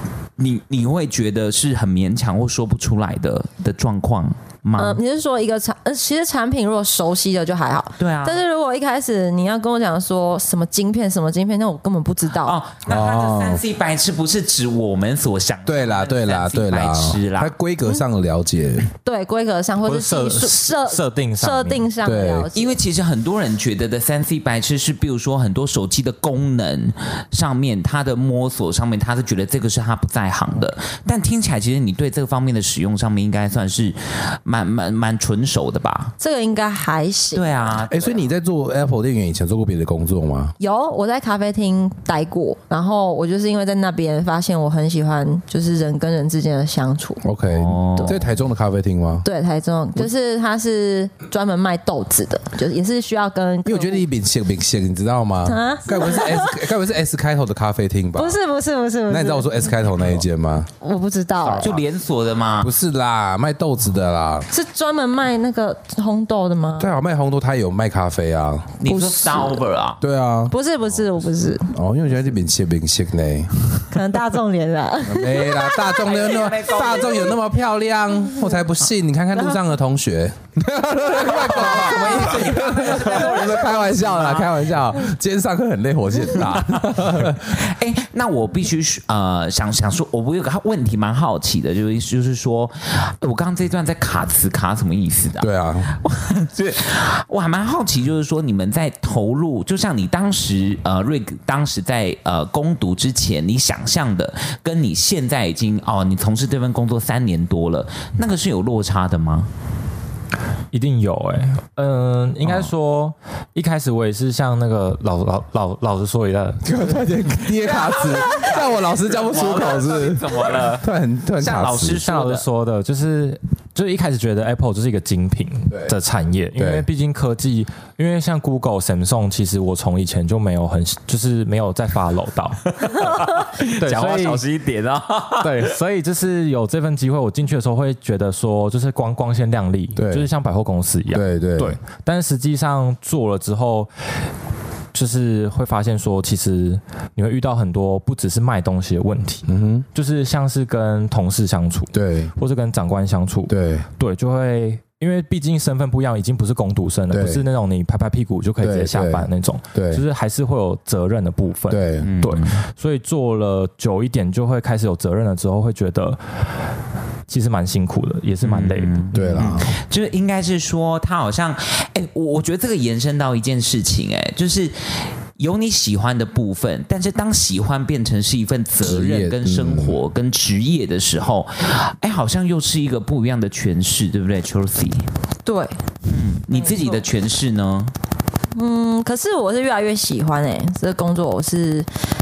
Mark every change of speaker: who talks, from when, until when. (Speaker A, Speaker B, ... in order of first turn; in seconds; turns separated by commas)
Speaker A: 0.4-5.0, Speaker B: 4.8-12.6, Speaker A: 8.0-8.4, Speaker A: 12.4-17.5, Speaker C: 12.9-13.6, Speaker C: 15.7-18.9, Speaker B: 19.0-22.7, Speaker D: 19.9-21.9, Speaker C: 22.0-22.5, Speaker A: 22.5-36.1, Speaker B: 36.2-37.7, Speaker A: 37.3-38.3, Speaker C: 37.9-40.5, Speaker B: 40.6-47.2, Speaker C: 47.2-49.3, Speaker A: 47.5-48.2, Speaker B: 49.2-54.0, Speaker C: 53.6-58.4, Speaker B: 55.5-56.6, Speaker B: 58.2-59.9, Speaker C: 59.1-60.7, Speaker B: 60.8-61.7, Speaker D: 61.5-61.7, Speaker A: 61.6-62.7, Speaker C: 62.6-64.5, Speaker B: 64.5-66.9, Speaker C: 66.8-68.8, Speaker A: 68.8-70.0, Speaker B: 68.9-69.6, Speaker C: 70.0-70.5, Speaker B: 70.5-71.7, Speaker C: 71.7-74.0, Speaker B: 73.9-76.0, Speaker C: 75.0-87.6, Speaker A: 76.0-77.4, Speaker A: 81.0-85.0, Speaker A: 86.4-86.8, Speaker A: 87.5-109.5, Speaker C: 95.4-96.0, Speaker D: 110.7-116.7, Speaker C: 116.6-122.0, Speaker A: 117.5-120.9, Speaker A: 121.4-122.5, Speaker D: 122.0-134.4, Speaker C: 125.7-126.0, Speaker C: 126.6-126.9, Speaker A: 132.8-135.8, Speaker D: 135.4-143.9, Speaker C: 140.0-140.3, Speaker C: 141.1-141.8, Speaker D: 144.9-166.2, Speaker C: 149.5-149.9, Speaker C: 151.9-152.3, Speaker C: 153.5-153.9, Speaker C: 157.1-157.4, Speaker C: 158.6-160.0, Speaker C: 161.7-162.1, Speaker A: 162.0-162.6, Speaker D: 167.3-169.6, Speaker A: 168.4-185.1, Speaker C: 169.1-169.7, Speaker C: 178.8-180.0, Speaker B: 185.4-185.8, Speaker A: 186.1-187.9, Speaker B: 186.5-187.0, Speaker B: 188.6-191.9